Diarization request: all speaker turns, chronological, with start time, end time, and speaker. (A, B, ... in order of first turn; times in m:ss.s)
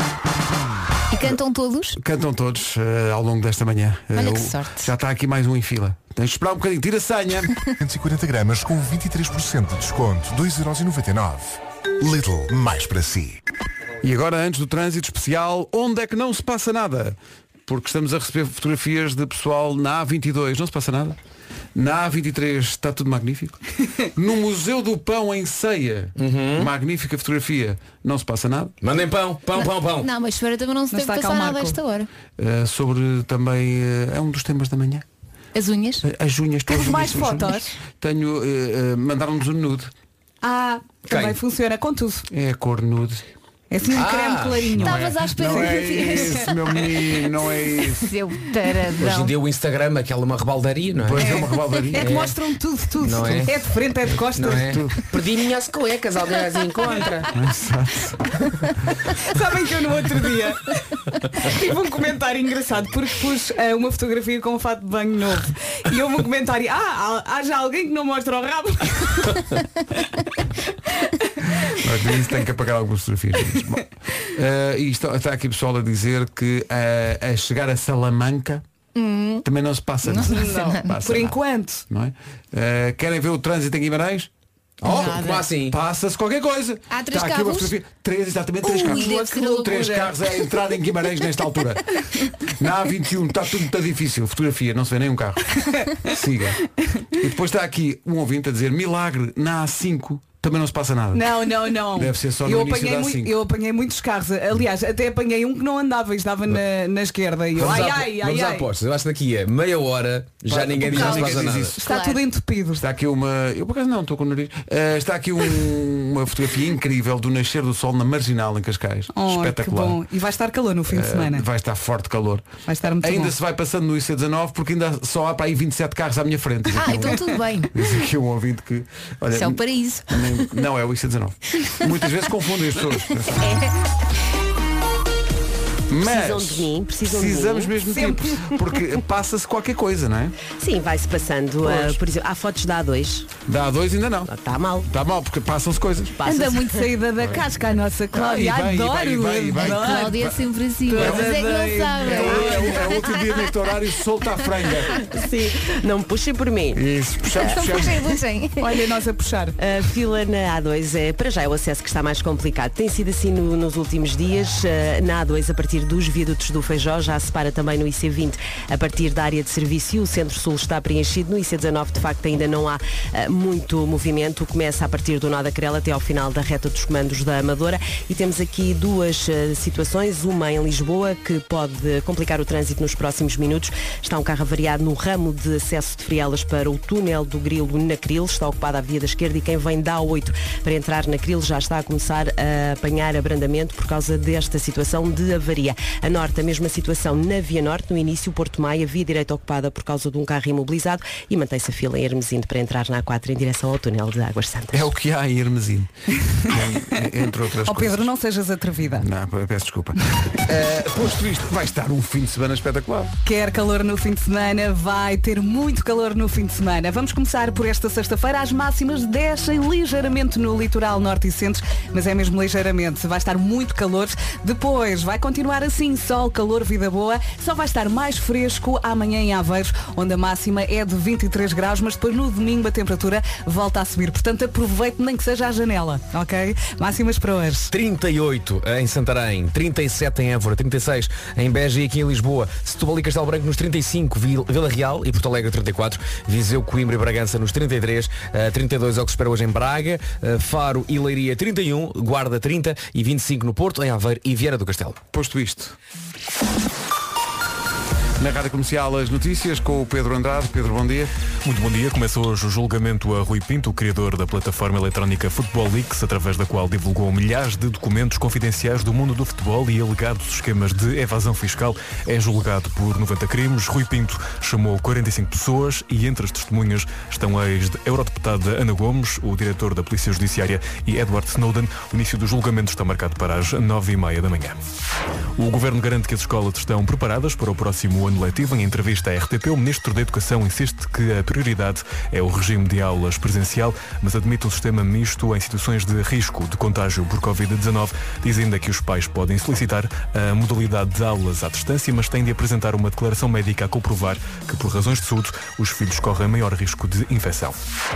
0:01.1-0:02.0 A
0:02.0-0:07.5 B
0:04.1-0:04.9 A
0:07.8-0:13.4 C
0:14.0-0:21.2 B
0:21.8-0:23.6 B
0:24.2-0:28.7 B
0:26.2-0:26.7 D
0:28.8-0:30.1 D
0:29.6-0:32.1 A
0:30.9-0:31.8 E
0:32.4-0:35.0 B
0:35.6-0:36.0 A
0:36.0-0:39.9 B
0:36.7-0:37.8 E
0:40.4-0:42.3 E
0:41.1-0:41.4 D
0:42.3-0:43.2 B
0:43.7-0:46.4 E
0:43.9-0:45.0 D
0:44.8-0:46.6 A
0:45.0-0:48.1 B
0:47.9-0:49.3 A
0:49.0-0:51.4 D
0:51.0-0:52.2 B
0:51.2-0:54.7 E
0:52.0-0:52.4 D
0:53.0-0:53.6 D
0:54.3-0:57.3 D
0:54.5-0:55.0 B
0:56.8-0:57.1 E
0:57.3-0:58.3 B
0:59.2-1:00.8 E
1:01.4-1:09.4 E
1:11.0-1:11.7 E
1:11.8-1:18.6 B
1:19.0-1:19.4 A
1:19.4-1:21.3 B
1:20.1-1:20.9 A
1:20.2-1:21.8 E
1:21.9-1:24.3 B
1:24.8-1:25.8 D
1:24.8-1:25.5 A
1:25.7-1:31.8 B
1:26.9-1:27.7 A
1:28.7-1:30.1 A
1:28.8-1:29.8 E
1:32.6-1:35.4 B
1:36.0-1:36.6 B
1:37.2-1:41.3 B
1:41.1-1:48.7 E
1:41.9-1:43.4 B
1:47.5-1:51.8 D
1:50.5-1:51.8 B
1:50.8-1:52.2 A
1:51.8-1:52.8 E
1:52.8-2:00.0 B
1:59.1-2:01.4 E
2:00.9-2:02.5 B
2:02.7-2:03.3 E
2:03.0-2:13.6 B
2:06.8-2:07.7 A
2:09.4-2:10.3 A
2:15.9-2:20.4 B
2:16.0-2:17.7 F
2:17.9-2:18.2 E
2:20.6-2:23.3 F
2:21.6-2:22.0 B
2:23.5-2:24.3 B
2:24.3-2:24.9 F
2:24.8-2:26.2 B
2:26.2-2:26.8 F
2:26.2-2:30.3 E
2:28.1-2:31.4 B
2:29.6-2:33.2 A
2:30.9-2:32.9 E
2:32.0-2:35.0 B
2:35.1-2:36.8 F
2:36.7-2:38.1 B
2:37.5-2:38.7 A
2:38.6-2:39.6 E
2:39.6-3:24.8 F
3:24.7-3:25.9 B
3:26.4-3:28.1 B
3:27.6-3:29.1 E
3:29.0-3:33.1 B
3:33.2-3:57.7 E
3:57.7-4:15.0 D
4:15.1-4:15.8 B
4:18.2-4:21.1 B
4:21.4-4:44.6 G
4:45.4-5:07.6 G